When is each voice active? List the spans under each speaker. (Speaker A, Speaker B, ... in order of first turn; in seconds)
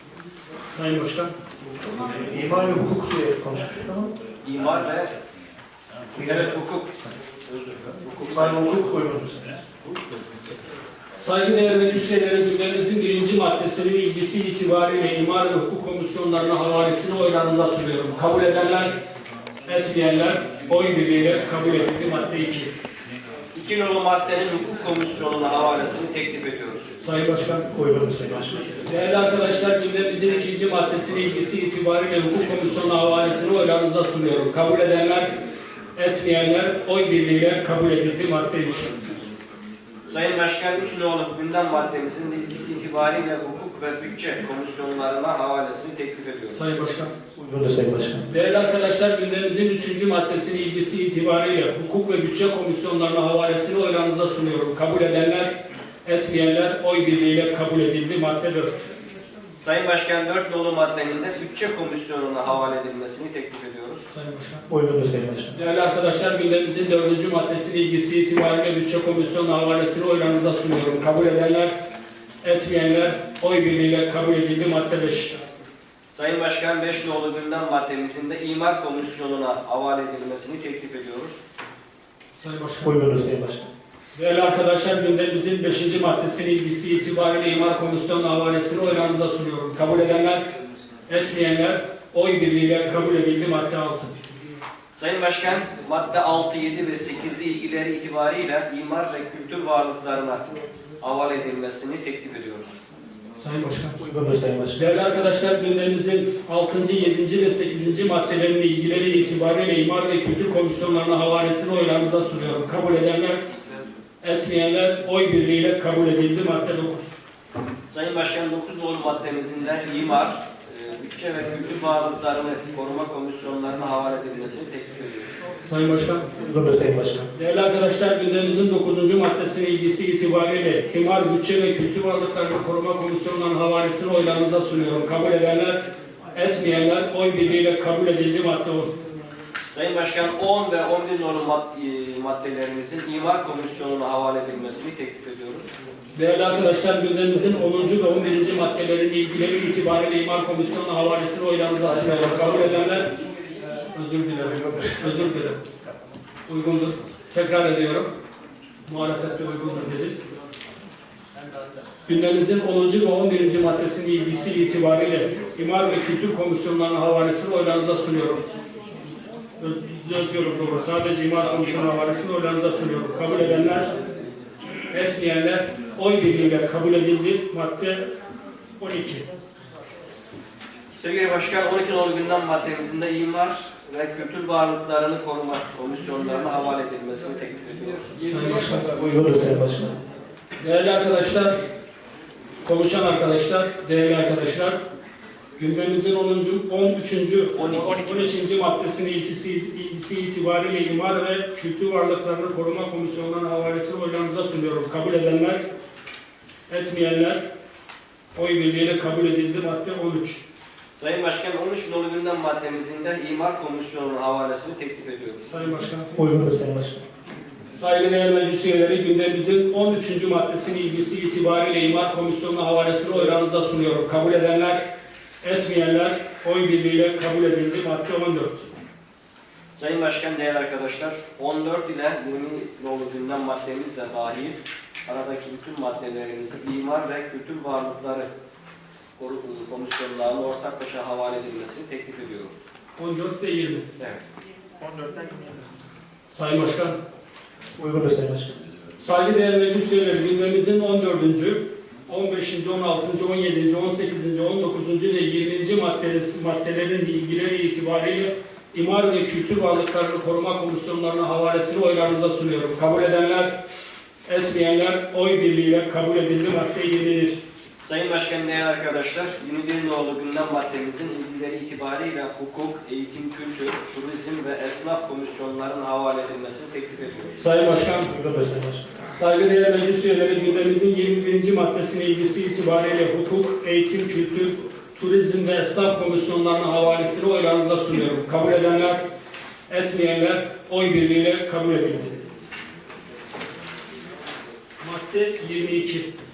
Speaker A: 0.7-1.3, 11.2-18.9, 19.7-22.7, 27.0-27.6, 28.9-35.3, 36.0-39.0, 46.5-47.1, 48.3-55.5, 56.0-58.7, 64.1-64.6, 65.5-71.7, 72.4-75.3, 82.4-82.9, 84.1-90.4, 91.1-94.1, 103.4-104.0, 104.8-113.4, 114.2-117.2, 125.6-126.2, 127.3-135.8, 136.3-138.9, 146.1-153.1, 153.9-155.6, 156.5-158.1, 158.9-160.2, 162.1-168.4, 169.6-173.9, 174.9-178.0, 178.8-179.2, 188.3-188.9, 190.6-191.5, 192.6-194.8, 195.6-205.6, 206.7-207.4, 208.3-210.4, 215.5-216.1, 217.8-224.8, 225.4-228.7, 243.0-243.8, 246.3-247.0, 249.0-263.5, 264.3-267.4, 277.4-278.1, 279.2-289.0, 289.7-292.1, 294.8-296.1
Speaker B: 2.0-4.1, 6.2-6.5, 8.3-9.6, 27.7-28.6, 47.4-48.3, 64.7-65.5, 82.8-83.7, 104.0-104.8, 126.4-127.3, 188.9-189.9, 216.1-217.0, 244.8-245.6, 247.8-248.6, 278.1-278.9
Speaker C: 4.4-5.1, 6.2-8.9, 23.5-26.9, 40.1-46.6, 59.6-64.1, 76.1-81.4, 94.9-100.4, 101.0-102.8, 117.9-125.3, 139.7-145.7, 152.1-152.4, 180.9-188.3, 197.6-198.3, 210.9-215.5, 229.7-238.3, 239.2-242.5, 267.8-277.4